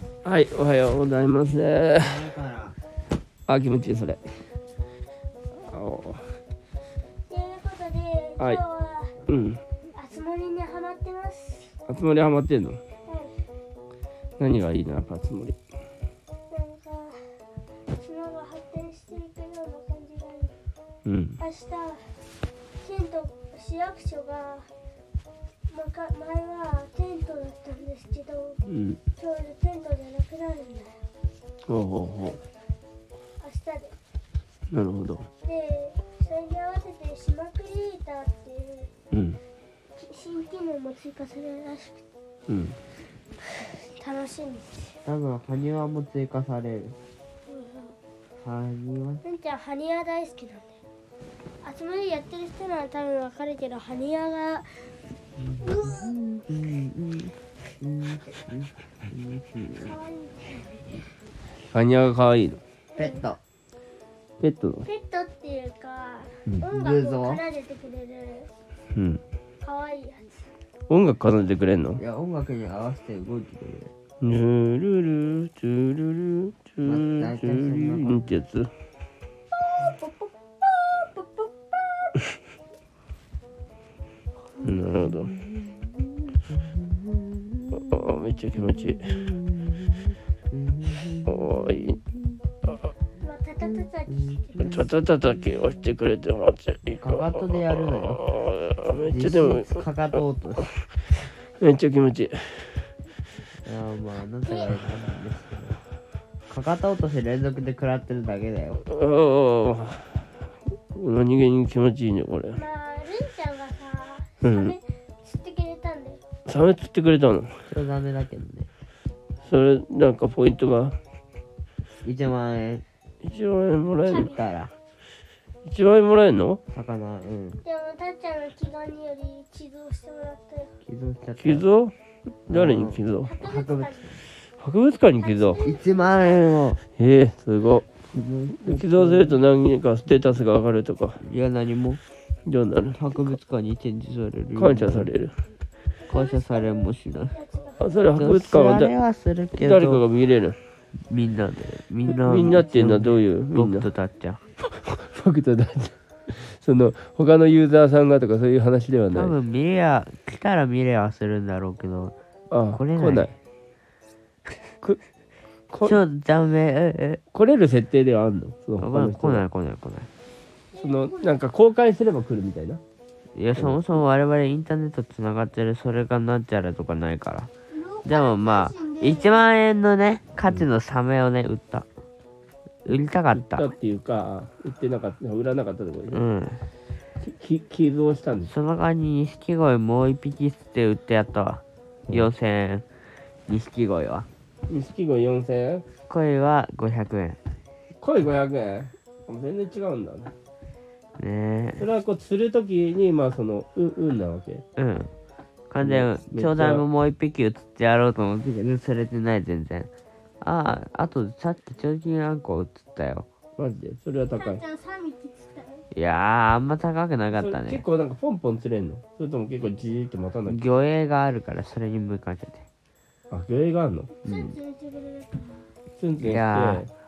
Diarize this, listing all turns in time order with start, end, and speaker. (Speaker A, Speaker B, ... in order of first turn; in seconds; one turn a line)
Speaker A: 0.2-2.3
Speaker B: 2.0-2.8
Speaker A: 3.5-4.2
Speaker A: 5.7-6.2
Speaker C: 7.3-9.1
Speaker A: 9.3-9.6
Speaker C: 9.9-11.7
Speaker A: 11.9-12.8
Speaker C: 13.1-13.3
Speaker A: 14.4-15.6
Speaker C: 16.5-17.2
Speaker C: 18.0-20.6
Speaker A: 21.1-21.4
Speaker C: 21.4-22.1
Speaker C: 22.8-24.7
Speaker C: 25.7-28.6
Speaker A: 28.7-29.0
Speaker C: 29.2-31.0
Speaker A: 31.7-32.4
Speaker C: 33.4-34.0
Speaker A: 34.7-35.3
Speaker C: 35.4-38.9
Speaker A: 39.1-39.4
Speaker C: 40.0-42.0
Speaker A: 42.5-42.8
Speaker C: 43.6-45.0
Speaker B: 45.0-47.0
Speaker C: 47.5-48.0
Speaker B: 48.4-49.2
Speaker C: 49.2-50.8
Speaker C: 51.6-54.7
Speaker B: 55.4-59.9
Speaker C: 55.6-56.1
Speaker C: 59.8-61.0
Speaker A: 61.7-62.6
Speaker C: 63.0-63.2
Speaker B: 63.0-63.4
Speaker A: 64.4-64.9
Speaker C: 64.8-68.5
Speaker B: 66.7-67.4
Speaker A: 69.0-69.2
Speaker C: 69.6-70.5
Speaker A: 70.9-72.0
Speaker B: 72.0-73.9
Speaker A: 74.2-78.7
Speaker B: 76.8-78.3
Speaker C: 79.6-82.1
Speaker A: 84.6-85.3
Speaker B: 84.7-92.0
Speaker A: 87.7-89.1
Speaker A: 91.3-92.0
Speaker C: 93.2-94.8
Speaker B: 94.1-94.8
Speaker A: 94.6-99.8
Speaker B: 97.0-98.2
Speaker B: 99.1-100.7
Speaker A: 101.6-102.8
Speaker B: 103.6-105.8
Speaker C: 104.5-104.8
Speaker B: 106.5-108.8
Speaker A: 108.9-110.2
Speaker A: 110.9-112.6
Speaker C: 112.5-116.2
Speaker A: 114.4-114.8
Speaker A: 116.5-117.5
Speaker B: 117.7-118.7
Speaker A: 119.4-121.0
Speaker B: 122.0-122.8
Speaker A: 123.2-124.3
Speaker B: 124.1-124.7
Speaker C: 124.1-124.4
Speaker A: 125.7-126.6
Speaker B: 126.7-127.6
Speaker C: 127.6-130.7
Speaker B: 130.8-131.7
Speaker A: 131.4-131.9
Speaker A: 132.5-133.3
Speaker B: 132.5-134.2
Speaker C: 133.2-134.2
Speaker A: 134.6-135.6
Speaker C: 135.2-136.4
Speaker B: 135.6-136.8
Speaker A: 137.0-137.9
Speaker B: 138.1-139.4
Speaker A: 138.6-141.2
Speaker B: 141.2-142.0
Speaker A: 142.5-143.0
Speaker B: 143.0-145.1
Speaker A: 144.6-145.3
Speaker C: 146.0-148.2
Speaker B: 146.1-147.4
Speaker A: 147.8-148.9
Speaker B: 148.2-150.0
Speaker A: 149.6-150.6
Speaker B: 151.0-154.4
Speaker A: 152.1-153.9
Speaker A: 154.7-159.4
Speaker B: 159.1-162.2
Speaker A: 162.5-163.4
Speaker B: 162.7-163.3
Speaker A: 165.7-166.0
Speaker B: 165.8-167.2
Speaker A: 167.3-169.4
Speaker B: 168.8-170.1
Speaker C: 170.7-171.4
Speaker A: 170.8-172.8
Speaker B: 173.3-177.5
Speaker A: 173.6-173.8
Speaker C: 177.7-179.4
Speaker B: 178.1-181.9
Speaker B: 182.8-183.7
Speaker A: 183.3-186.2
Speaker B: 186.1-186.7
Speaker A: 187.2-188.5
Speaker B: 188.5-192.9
Speaker B: 193.5-194.3
Speaker A: 194.7-195.8
Speaker B: 196.1-197.4
Speaker A: 198.0-200.3
Speaker B: 201.2-201.8
Speaker A: 201.8-204.6
Speaker B: 204.8-205.1
Speaker B: 205.7-209.9
Speaker A: 205.8-206.8
Speaker B: 210.4-213.3
Speaker A: 213.6-214.6
Speaker C: 214.3-215.8
Speaker B: 215.9-217.8
Speaker A: 217.3-220.7
Speaker B: 220.5-222.7
Speaker A: 223.3-224.1
Speaker C: 224.2-225.7
Speaker B: 224.2-224.6
Speaker A: 226.0-226.9
Speaker B: 226.2-226.9